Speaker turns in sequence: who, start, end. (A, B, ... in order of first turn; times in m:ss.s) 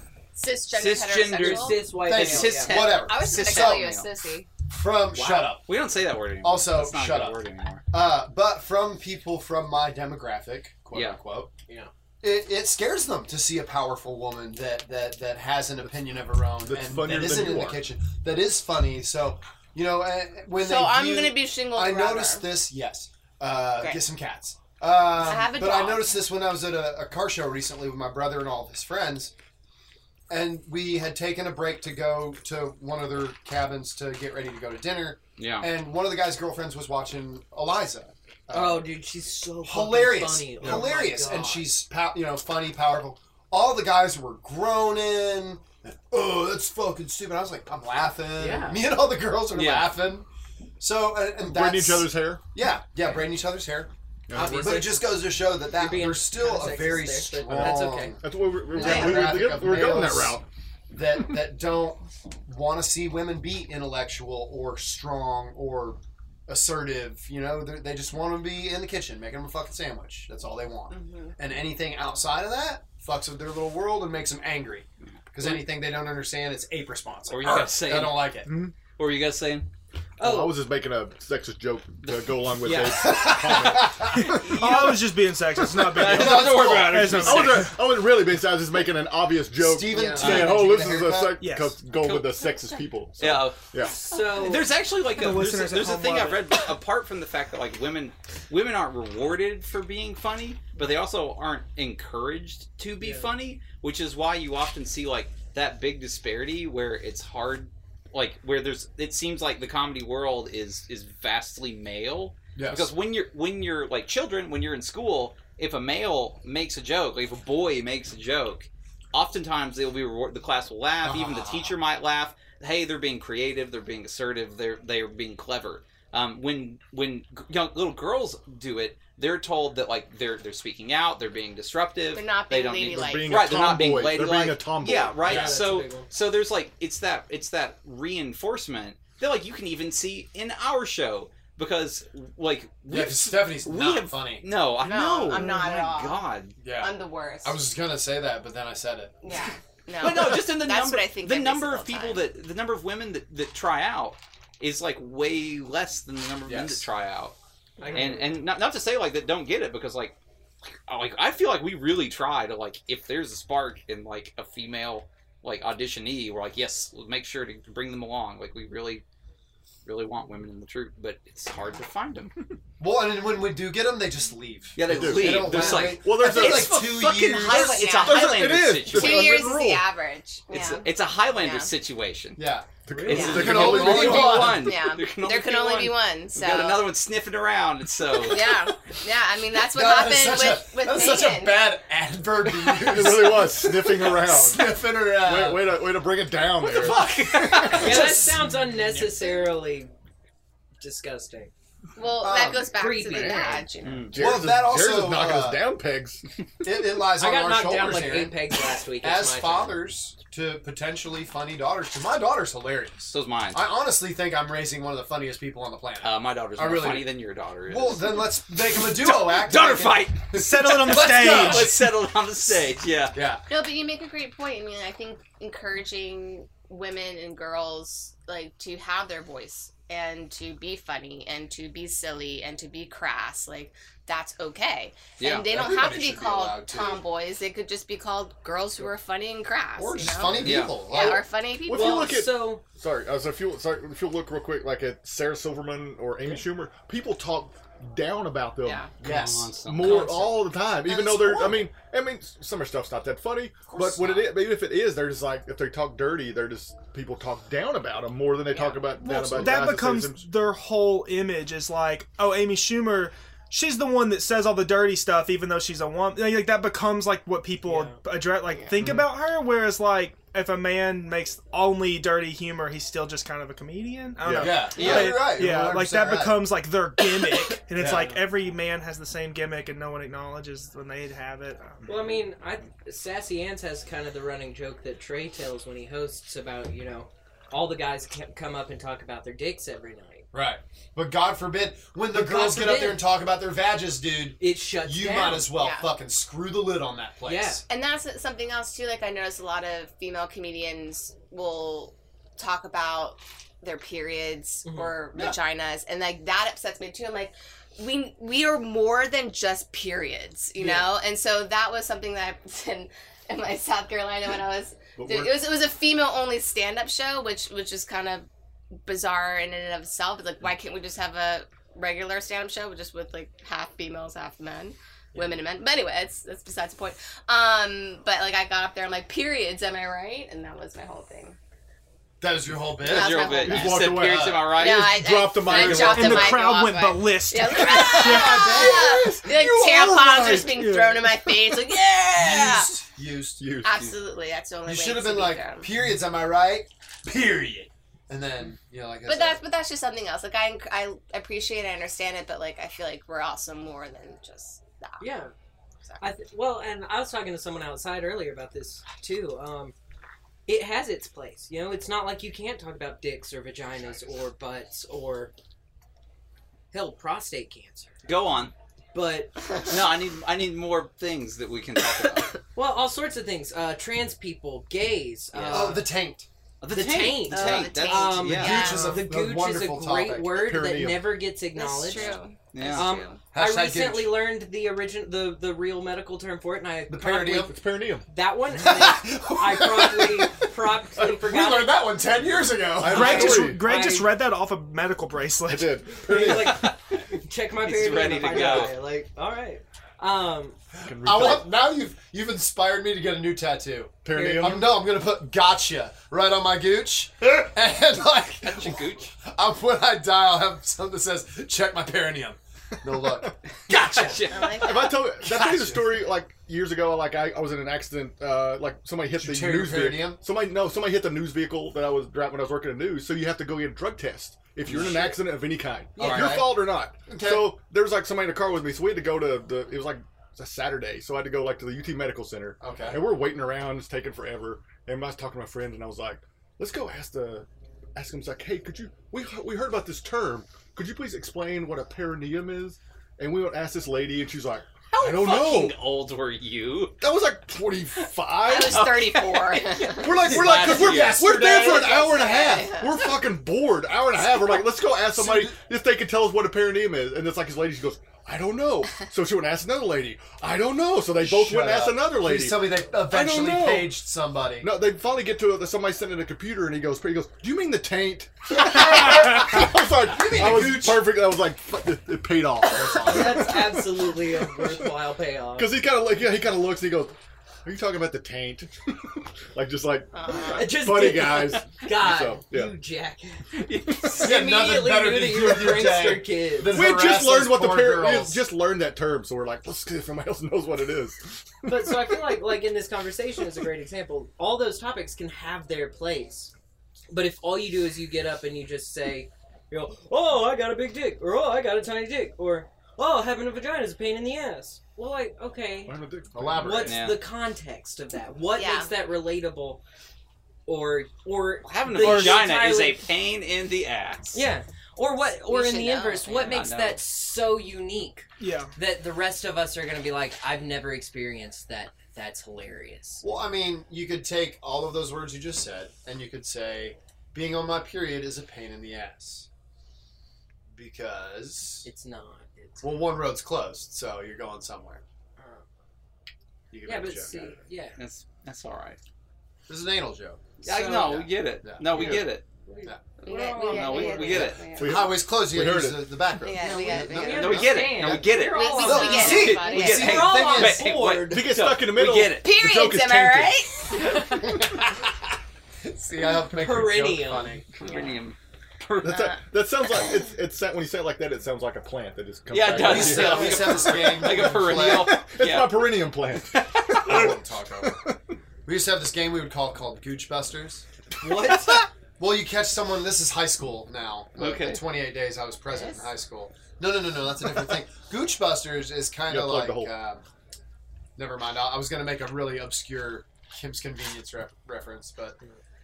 0:00.3-0:04.6 A
0:00.7-0:04.1 B
0:01.4-0:02.8 C
0:02.0-0:03.9 D
0:04.6-0:05.6 D
0:05.1-0:05.6 C
0:05.7-0:07.8 B
0:06.4-0:11.5 D
0:10.9-0:11.2 B
0:12.2-0:29.3 D
0:16.7-0:17.8 E
0:20.6-0:22.5 A
0:23.8-0:24.0 A
0:25.1-0:26.1 A
0:30.3-0:38.9 D
0:35.4-0:35.7 B
0:38.5-0:41.7 C
0:39.6-0:50.2 D
0:48.4-0:48.9 C
0:49.5-0:50.0 B
0:50.8-0:53.9 D
0:51.4-0:52.4 E
0:54.3-0:54.7 E
0:54.3-0:58.2 C
0:54.4-1:18.5 D
0:57.5-1:00.4 E
0:58.8-0:59.3 B
1:10.9-1:11.3 A
1:17.3-1:18.2 B
1:17.4-1:18.2 C
1:18.4-1:18.7 E
1:19.0-1:19.7 B
1:20.2-1:20.6 C
1:20.2-1:24.9 E
1:22.0-1:22.3 B
1:22.6-1:23.3 C
1:23.0-1:24.1 D
1:24.1-1:25.1 B
1:24.5-1:27.7 F
1:25.5-1:26.1 E
1:25.8-1:27.7 B
1:26.0-1:27.4 D
1:27.2-1:33.9 E
1:29.6-1:31.4 D
1:29.9-1:30.5 C
1:30.2-1:30.6 B
1:31.4-1:31.8 F
1:31.9-1:32.3 B
1:32.6-1:32.9 A
1:33.2-1:33.6 B
1:33.8-1:34.7 C
1:34.1-1:34.6 A
1:34.2-2:26.6 B
1:35.1-1:36.6 F
1:43.0-1:43.3 C
1:52.6-1:52.9 D
2:01.0-2:01.8 D
2:12.1-2:13.4 A
2:12.8-2:15.4 E
2:15.2-2:16.1 C
2:22.9-2:24.6 D
2:24.8-2:27.6 A
2:26.6-2:29.2 D
2:29.2-2:32.3 A
2:30.0-2:37.4 B
2:36.4-2:36.8 D
2:37.8-2:38.4 C
2:37.8-2:38.2 A
2:37.9-2:40.2 B
2:40.9-2:49.0 B
2:49.8-2:52.3 B
2:52.8-2:57.9 D
2:54.8-2:59.3 B
2:54.9-2:56.8 E
2:57.4-3:01.7 A
2:57.6-2:59.8 E
3:00.5-3:02.4 B
3:02.3-3:04.7 D
3:02.8-3:04.1 E
3:02.9-3:03.5 C
3:03.1-3:06.9 A
3:03.2-3:08.5 B
3:08.2-3:11.8 A
3:09.7-3:15.8 D
3:12.6-3:18.0 E
3:16.6-3:18.2 B
3:17.8-3:19.9 C
3:18.0-3:19.2 D
3:20.8-3:21.5 C
3:22.0-3:24.2 A
3:22.2-3:22.7 D
3:22.7-3:23.6 C
3:23.1-3:23.4 E
3:23.8-3:24.1 B
3:24.0-3:26.2 E
3:24.2-3:25.6 D
3:26.6-3:28.4 D
3:27.2-3:29.8 C
3:29.0-3:41.7 D
3:33.1-3:33.6 B
3:36.0-3:43.2 B
3:40.3-3:41.7 F
3:43.1-3:43.4 D
3:43.5-4:02.2 A
3:55.2-3:55.5 B
3:55.5-3:57.0 D
3:59.8-4:01.2 D
4:00.4-4:00.8 B
4:01.6-4:08.9 E
4:01.7-4:02.6 C
4:08.6-4:08.9 A
4:09.0-4:10.0 D
4:09.0-4:10.3 B
4:09.6-4:20.2 E
4:10.8-4:11.7 D
4:13.7-4:14.3 D
4:18.5-4:19.4 A
4:19.3-4:42.2 F
4:27.7-4:28.0 C
4:28.5-4:28.8 A
4:28.8-4:29.1 E
4:34.2-4:34.6 E
4:34.4-4:36.5 D
4:34.7-4:35.3 B
4:37.8-4:38.2 D
4:41.8-4:50.2 C
4:50.3-4:57.6 D
4:52.1-4:53.1 C
4:54.4-4:55.5 C
4:55.6-4:55.9 A
4:57.2-4:57.6 C
4:57.7-5:18.3 A
5:04.6-5:05.0 C
5:10.6-5:10.9 C
5:15.0-5:15.3 E
5:18.8-5:31.4 A
5:32.2-5:34.6 D
5:32.8-5:33.8 A
5:32.8-5:34.9 B
5:33.4-5:36.3 E
5:34.5-5:42.7 A
5:35.5-5:38.9 F
5:37.6-5:39.9 D
5:39.4-5:40.6 E
5:40.6-5:41.4 F
5:42.1-5:43.5 D
5:43.4-5:43.8 E
5:43.6-5:45.7 A
5:44.6-5:49.4 D
5:49.0-5:55.0 A
5:55.0-5:55.3 C
5:56.0-5:59.7 C
6:00.5-6:05.3 C
6:06.7-6:07.9 C
6:08.0-6:08.5 B
6:08.9-6:09.4 C
6:09.7-6:12.3 B
6:12.5-6:15.9 C
6:15.3-6:15.8 B
6:15.5-6:16.3 D
6:16.6-6:18.8 B
6:16.7-6:22.2 C
6:17.3-6:19.0 A
6:18.3-6:20.4 D
6:20.4-6:21.2 E
6:21.5-6:23.2 A
6:22.5-6:22.9 B
6:22.7-6:31.9 C
6:23.3-6:24.2 D
6:26.9-6:27.5 D
6:27.5-6:28.1 E
6:28.5-6:33.4 D
6:32.8-6:33.6 E
6:32.8-6:34.1 C
6:32.9-6:35.8 F
6:35.5-6:36.7 E
6:36.0-6:40.6 C
6:36.1-6:36.8 B
6:37.6-6:38.7 B
6:40.8-6:53.3 D
6:40.8-6:41.5 E
6:44.0-6:44.6 E
6:44.1-6:44.7 C
6:48.4-6:49.1 B
6:53.7-6:55.7 B
6:53.7-6:54.2 C
6:54.3-6:55.2 A
6:54.6-7:25.8 E
6:59.1-7:00.2 D
7:04.7-7:05.2 D
7:05.9-7:06.4 C
7:06.0-7:07.6 D
7:12.6-7:13.0 D
7:24.9-7:26.9 B
7:27.0-7:29.1 E
7:28.4-7:30.3 A
7:28.7-7:31.2 B
7:29.8-7:43.9 E
7:30.0-7:32.7 D
7:32.0-7:33.0 A
7:35.1-7:35.6 D
7:41.2-7:44.8 D
7:44.6-7:54.9 E
7:50.1-7:51.2 D
7:52.7-7:53.4 D
7:53.0-7:55.8 C
7:55.5-8:02.7 E
8:00.1-8:00.8 A
8:00.5-8:03.5 C
8:03.6-8:04.4 B
8:04.1-8:08.5 D
8:04.1-8:06.8 C
8:06.7-8:12.4 E
8:11.6-8:16.5 C
8:17.1-8:26.0 C
8:25.8-8:27.0 E
8:26.3-8:26.9 D
8:26.5-8:29.8 C
8:26.8-8:27.2 B
8:28.5-8:29.0 A
8:30.6-8:33.0 C
8:31.6-8:34.4 B
8:34.3-8:43.2 C
8:35.5-8:36.7 A
8:36.3-8:37.0 B
8:38.4-8:38.7 F
8:43.2-8:49.5 D
8:50.7-8:51.8 D
8:51.8-8:53.1 C
8:52.8-8:55.0 D
8:55.4-8:55.6 C
8:56.7-8:57.5 D
8:56.8-8:58.0 C
8:58.0-8:59.0 B
8:59.7-9:02.3 D
9:00.6-9:01.2 C
9:00.6-9:02.4 B
9:01.9-9:04.6 C
9:03.2-9:05.2 A
9:03.7-9:04.6 B
9:04.7-9:06.2 E
9:04.7-9:07.8 D
9:06.4-9:10.3 A
9:06.5-9:11.6 C
9:07.2-9:12.5 B
9:08.8-9:10.9 D
9:11.3-9:13.6 E
9:12.4-9:14.2 A
9:14.4-9:14.9 D
9:15.8-9:17.6 D
9:16.6-9:17.6 C
9:17.8-9:19.3 B
9:19.0-9:28.2 E
9:22.5-9:25.9 B
9:22.7-9:25.1 D
9:23.1-9:23.7 C
9:26.5-9:27.0 B
9:27.0-9:28.0 D
9:28.6-9:30.8 D
9:31.2-9:31.7 C
9:31.2-9:31.9 B
9:32.2-9:40.2 D
9:34.4-9:34.8 B
9:35.7-9:36.1 A
9:39.3-9:39.9 E
9:41.2-9:45.4 D